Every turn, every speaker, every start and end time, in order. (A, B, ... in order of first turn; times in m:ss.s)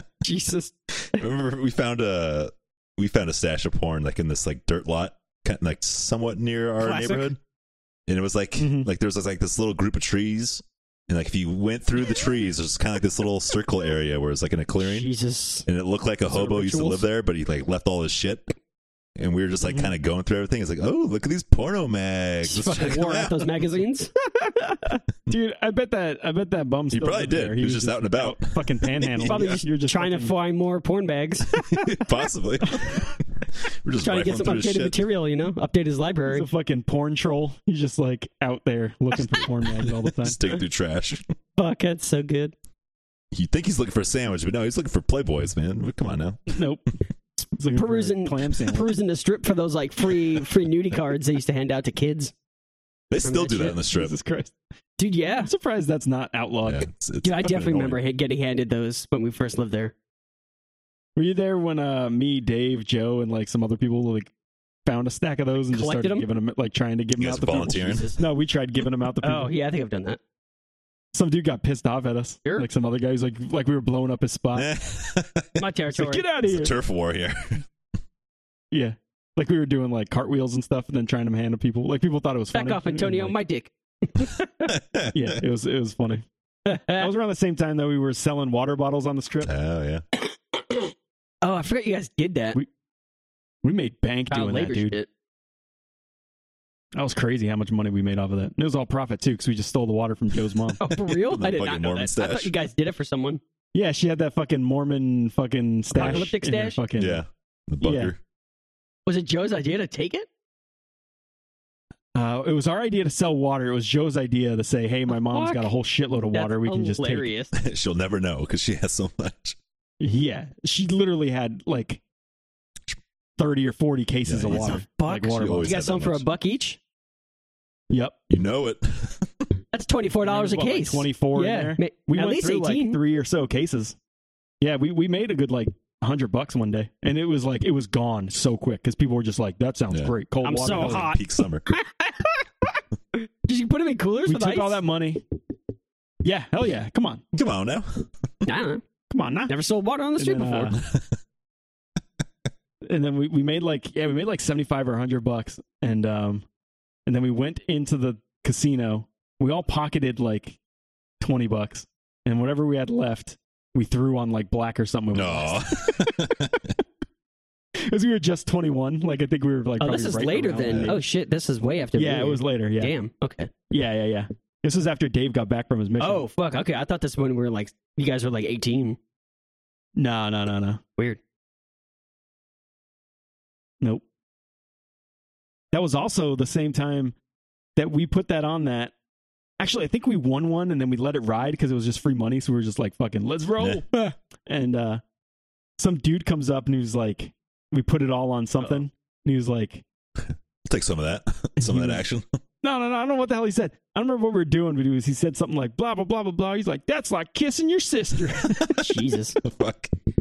0:00.2-0:01.2 A
0:01.2-0:07.4 B
0:06.8-0:07.3 A
0:08.1-0:15.1 B
0:08.6-0:08.9 C
0:14.8-0:15.7 A
0:15.7-0:18.5 B
0:16.3-0:17.0 A
0:19.2-0:23.5 B
0:19.6-0:19.9 C
0:22.4-0:24.9 A
0:25.3-0:30.4 C
0:26.9-0:29.6 B
0:29.2-0:31.6 A
0:31.5-0:35.0 B
0:32.7-0:33.1 C
0:34.0-0:36.5 A
0:36.3-0:40.4 C
0:39.3-0:41.2 B
0:41.6-0:42.6 A
0:43.3-0:46.6 B
0:46.5-0:46.8 C
0:47.4-0:52.3 A
0:47.6-0:48.9 C
0:53.1-0:54.2 B
0:53.2-0:53.8 A
0:53.8-0:54.6 C
0:55.0-0:55.5 A
0:55.4-0:56.9 C
0:56.6-0:58.0 B
0:57.2-0:59.9 A
1:01.2-1:04.3 C
1:04.8-1:09.5 C
1:05.7-1:06.3 A
1:07.2-1:08.1 B
1:07.5-1:08.2 A
1:09.2-1:10.2 A
1:11.1-1:14.7 C
1:14.6-1:15.6 B
1:15.6-1:16.2 A
1:15.9-1:16.7 C
1:16.4-1:17.6 B
1:18.7-1:23.4 C
1:22.5-1:24.7 A
1:24.7-1:25.4 B
1:25.1-1:26.2 C
1:26.7-1:27.1 A
1:26.9-1:29.5 C
1:29.4-1:30.0 B
1:30.6-1:30.9 A
1:31.4-1:32.6 A
1:33.6-1:35.0 C
1:34.3-1:35.1 A
1:37.0-1:40.8 C
1:40.8-1:43.4 A
1:40.9-1:42.5 B
1:43.7-1:47.2 C
1:45.9-1:46.3 B
1:45.9-1:46.8 A
1:47.0-1:48.2 B
1:47.8-1:48.1 C
1:49.1-1:50.3 A
1:52.2-1:57.3 C
1:55.1-1:55.7 A
1:56.3-1:57.5 A
1:57.5-1:59.6 B
2:00.0-2:02.0 C
2:03.4-2:05.7 C
2:04.3-2:06.2 B
2:04.5-2:06.8 A
2:07.9-2:08.2 C
2:08.3-2:09.5 B
2:09.7-2:13.0 A
2:10.2-2:14.0 C
2:14.6-2:21.2 C
2:19.9-2:21.7 B
2:20.4-2:21.2 A
2:21.7-2:22.5 A
2:23.1-2:24.8 A
2:24.3-2:25.2 C
2:26.2-2:27.2 C
2:27.3-2:28.1 B
2:28.4-2:28.8 A
2:29.1-2:29.5 C
2:29.5-2:30.8 A
2:30.2-2:30.8 C
2:30.8-2:31.2 B
2:32.8-2:36.4 C
2:37.1-2:40.6 C
2:41.2-2:46.4 C
2:45.1-2:46.8 B
2:47.8-2:51.0 C
2:49.8-2:53.5 A
2:50.7-2:51.0 B
2:52.0-2:52.9 C
2:53.7-2:56.2 C
2:56.0-2:59.0 A
3:00.0-3:00.8 C
3:05.7-3:07.2 C
3:07.8-3:08.9 C
3:09.6-3:15.0 C
3:15.8-3:19.8 C
3:20.6-3:22.4 B
3:21.6-3:22.0 C
3:22.6-3:29.0 C
3:28.4-3:28.8 B
3:28.8-3:29.4 A
3:29.4-3:29.9 B